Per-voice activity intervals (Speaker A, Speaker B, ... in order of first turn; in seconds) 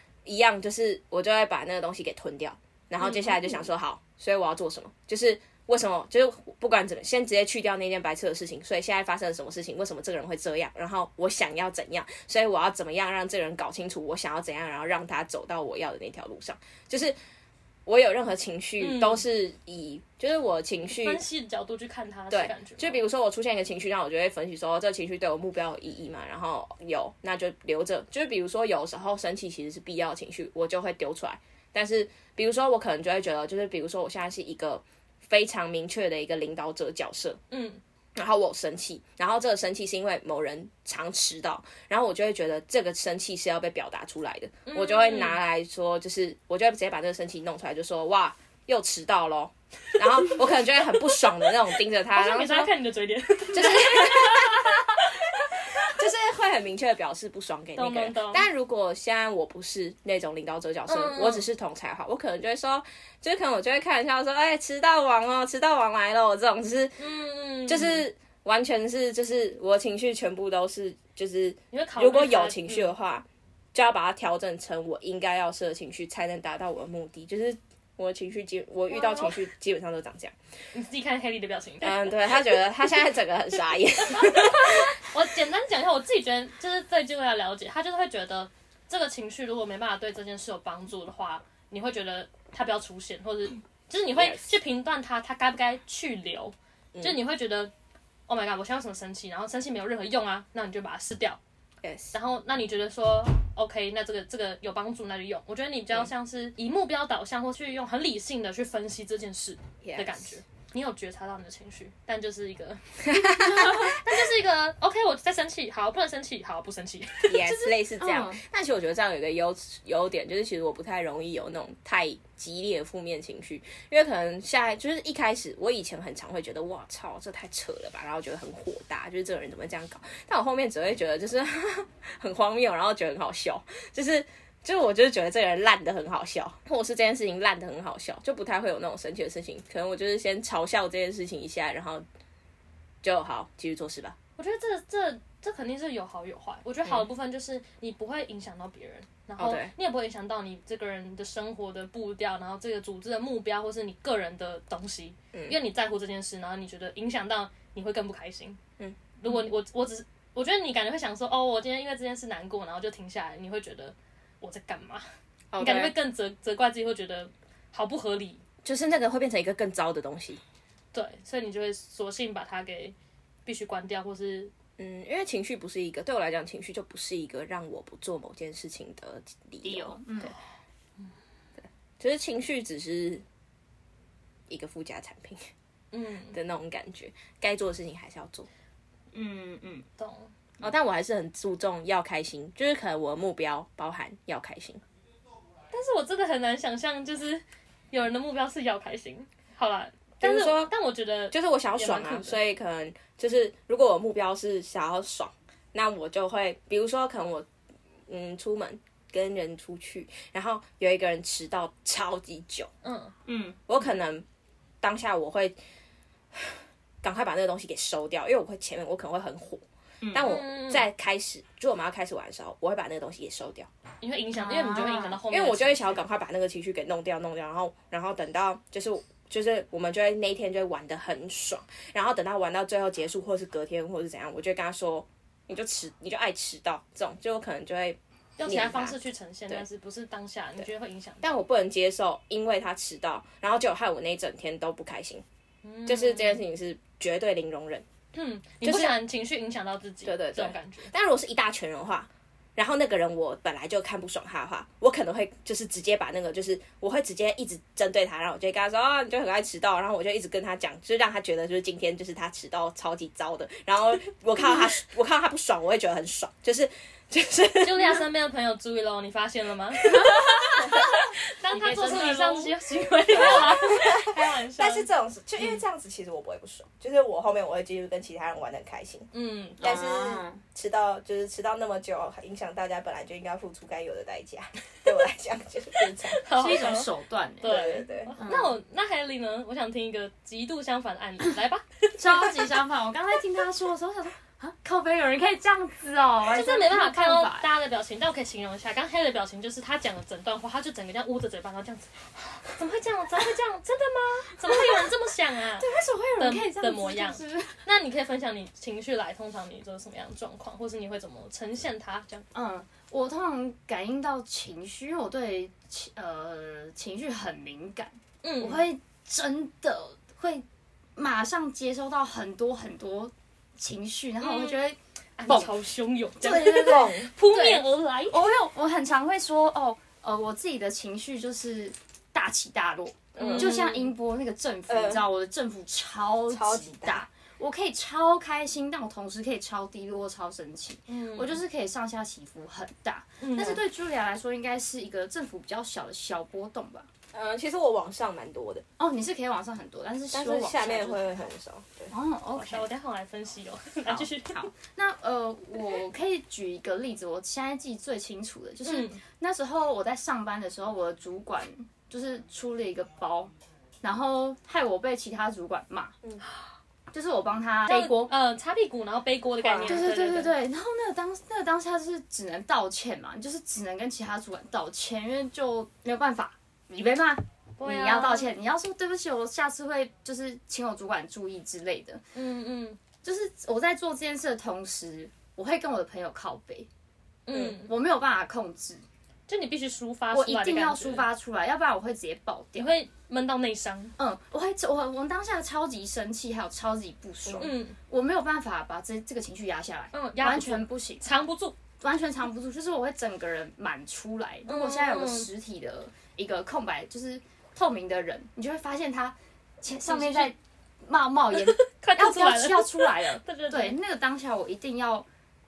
Speaker A: 0.2-17.2, 17.9-21.2, 22.3-37.4, 38.1-52.7, 53.5-67.0, 67.7-80.3, 81.8-85.0, 94.1-94.5, 101.8-102.1, 109.8-110.3, 113.1-113.9, 117.3-142.0, 143.0-144.2, 149.4-149.7, 165.5-165.9, 168.6-170.4, 174.8-180.0, 182.0-183.2, 184.5-185.5, 186.3-188.5, 190.6-194.8, 200.2-200.7, 201.3-207.5, 208.1-212.7, 213.7-214.2, 214.8-215.6, 216.3-223.7, 225.3-239.0, 241.2-245.2, 245.8-247.8, 248.6-248.9, 250.0-268.0, 270.6-270.9, 273.1-286.7, 287.4-288.2, 326.2-327.1, 333.1-333.6, 334.7-335.0, 336.3-337.0, 347.1-348.6, 350.1-351.9, 369.4-369.8, 387.3-387.6
Speaker B: 18.8-19.2, 20.9-23.0, 37.5-37.8, 44.6-45.4, 52.1-56.0, 57.8-58.5, 60.9-61.5, 67.0-68.0, 71.7-72.9, 80.7-82.6, 84.1-97.7, 98.3-101.4, 102.1-117.7, 144.4-158.6, 159.2-165.0, 165.6-168.4, 170.9-172.9, 173.4-174.5, 185.9-186.3, 190.0-190.3, 195.7-202.4, 212.8-213.1, 220.2-220.9, 224.0-226.0, 238.4-241.4, 245.6-246.4, 248.1-250.9, 267.6-274.9, 279.1-279.7, 286.1-292.3, 296.2-312.2, 318.2-318.7, 324.2-324.6, 325.2-328.3, 333.2-333.9, 340.9-341.4, 343.2-343.6, 352.4-354.5, 358.6-359.0, 367.7-370.4, 377.6-378.3, 382.1-382.8, 387.2-387.7, 389.3-391.1, 392.6-393.9, 397.4-397.8, 399.9-401.6, 404.4-405.3, 409.8-410.3, 411.4-413.8
Speaker C: 113.4-113.9, 118.0-118.4, 179.6-180.3, 189.1-189.8, 213.2-213.6, 220.0-220.3, 224.3-225.2, 270.0-273.9, 279.6-280.4, 286.3-288.6, 292.0-297.5, 304.4-304.9, 305.6-307.6, 312.3-325.5, 326.3-346.9, 348.8-351.3, 351.9-352.7, 353.9-363.3, 363.8-365.9, 366.9-368.1, 369.6-382.0, 383.0-386.7, 387.6-388.8, 390.1-392.8, 394.0-401.0, 401.8-415.1